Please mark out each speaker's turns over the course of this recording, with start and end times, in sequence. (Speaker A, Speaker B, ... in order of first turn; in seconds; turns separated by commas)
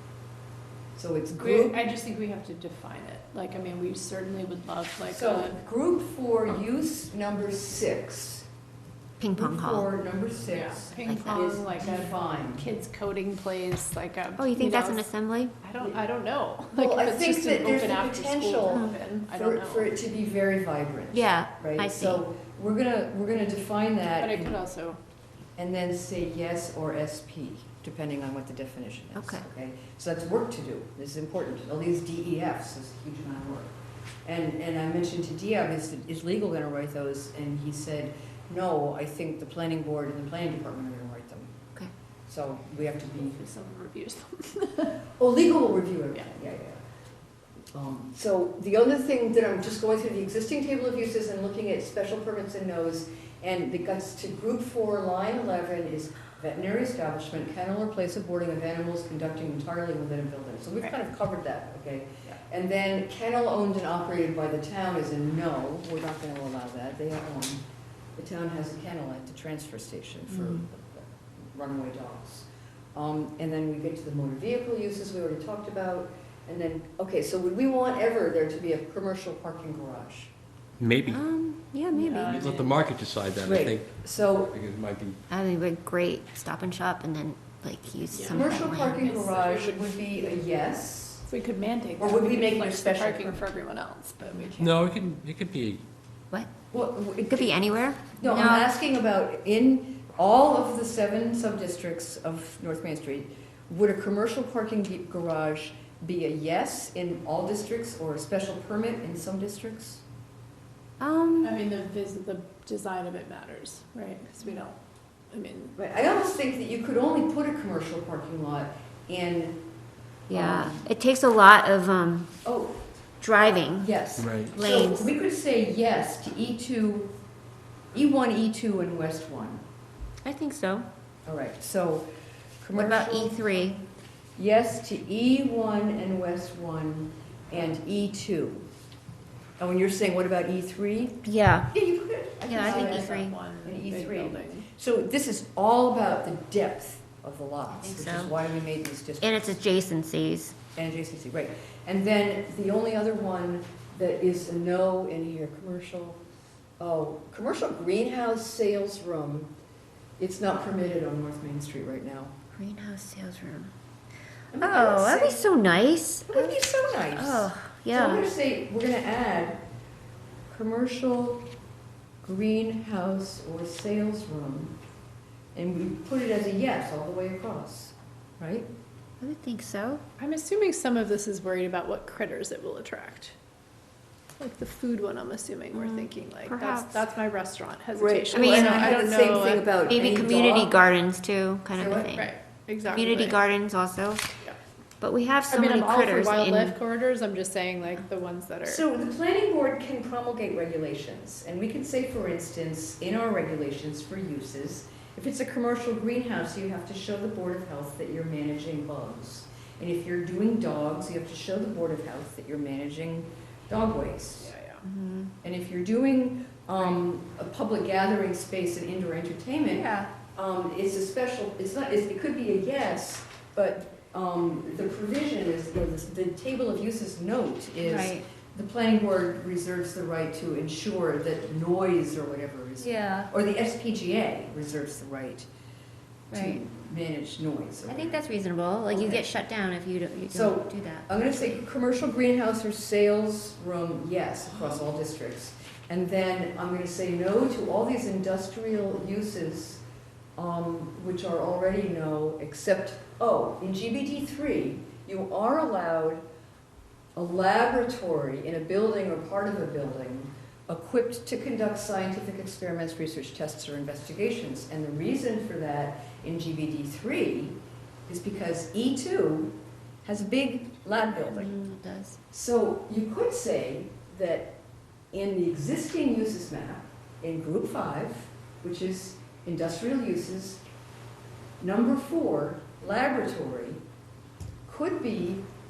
Speaker A: 0.9-1.8, Speaker B: 1.4-5.6, Speaker A: 5.0-8.5, Speaker C: 9.2-9.9, Speaker A: 9.3-12.7, Speaker B: 10.5-15.1, Speaker C: 11.0-11.4, Speaker C: 14.4-15.6, Speaker B: 15.6-19.9, Speaker A: 16.7-24.5, Speaker C: 18.6-19.0, Speaker C: 21.1-22.2, Speaker B: 24.2-25.0, Speaker A: 25.6-33.7, Speaker C: 29.1-29.4, Speaker A: 34.2-41.5, Speaker A: 42.3-43.4, Speaker B: 43.1-45.0, Speaker A: 45.2-46.8, Speaker A: 47.7-67.6, Speaker A: 68.2-80.3, Speaker C: 70.3-70.6, Speaker D: 80.8-81.2, Speaker C: 81.1-82.4, Speaker B: 81.9-82.7, Speaker D: 82.2-85.2, Speaker A: 83.4-84.5, Speaker C: 85.3-89.1, Speaker B: 88.1-90.4, Speaker A: 88.3-91.2, Speaker B: 91.3-94.8, Speaker A: 92.0-93.5, Speaker D: 94.6-95.8, Speaker C: 96.3-96.5, Speaker A: 96.7-110.0, Speaker C: 97.2-98.7, Speaker C: 111.0-111.6, Speaker B: 111.4-114.8, Speaker B: 115.3-115.8, Speaker A: 115.8-119.6, Speaker C: 120.3-122.3, Speaker A: 120.3-120.8, Speaker A: 122.4-122.8, Speaker C: 123.2-123.9, Speaker A: 123.8-127.1, Speaker D: 124.2-124.5, Speaker C: 124.5-125.1, Speaker A: 127.9-129.6, Speaker C: 130.2-130.9, Speaker A: 131.2-132.1, Speaker A: 132.6-133.4, Speaker C: 132.8-133.8, Speaker A: 134.3-138.7, Speaker A: 139.6-149.5, Speaker C: 141.2-141.7, Speaker C: 142.4-143.3, Speaker B: 142.5-144.7, Speaker C: 147.7-148.3, Speaker C: 149.2-150.6, Speaker A: 150.8-156.2, Speaker A: 156.8-159.5, Speaker A: 160.2-162.3, Speaker C: 162.5-163.7, Speaker A: 164.5-165.5, Speaker C: 164.6-166.6, Speaker A: 166.3-169.6, Speaker C: 167.1-168.3, Speaker A: 170.5-171.4, Speaker A: 172.2-174.8, Speaker A: 175.5-178.7, Speaker C: 179.2-180.0, Speaker B: 180.2-183.3, Speaker B: 184.4-189.7, Speaker C: 185.7-187.0, Speaker A: 187.9-190.8, Speaker C: 188.3-189.0, Speaker C: 189.9-192.3, Speaker A: 191.7-192.1, Speaker B: 192.1-193.4, Speaker C: 192.9-194.3, Speaker C: 195.0-196.8, Speaker B: 195.5-199.1, Speaker A: 198.6-214.5, Speaker B: 214.4-214.8, Speaker C: 214.8-215.3, Speaker A: 215.4-235.5, Speaker C: 219.7-220.1, Speaker C: 227.8-228.2, Speaker C: 232.8-233.3, Speaker C: 236.3-236.6, Speaker A: 236.3-238.2, Speaker C: 237.9-241.6, Speaker A: 238.9-239.2, Speaker A: 240.3-249.8, Speaker A: 250.4-256.2, Speaker A: 257.1-267.6, Speaker A: 268.1-271.5, Speaker C: 271.3-272.2, Speaker A: 272.3-274.6, Speaker A: 275.1-280.6, Speaker A: 281.6-283.8, Speaker A: 284.6-285.4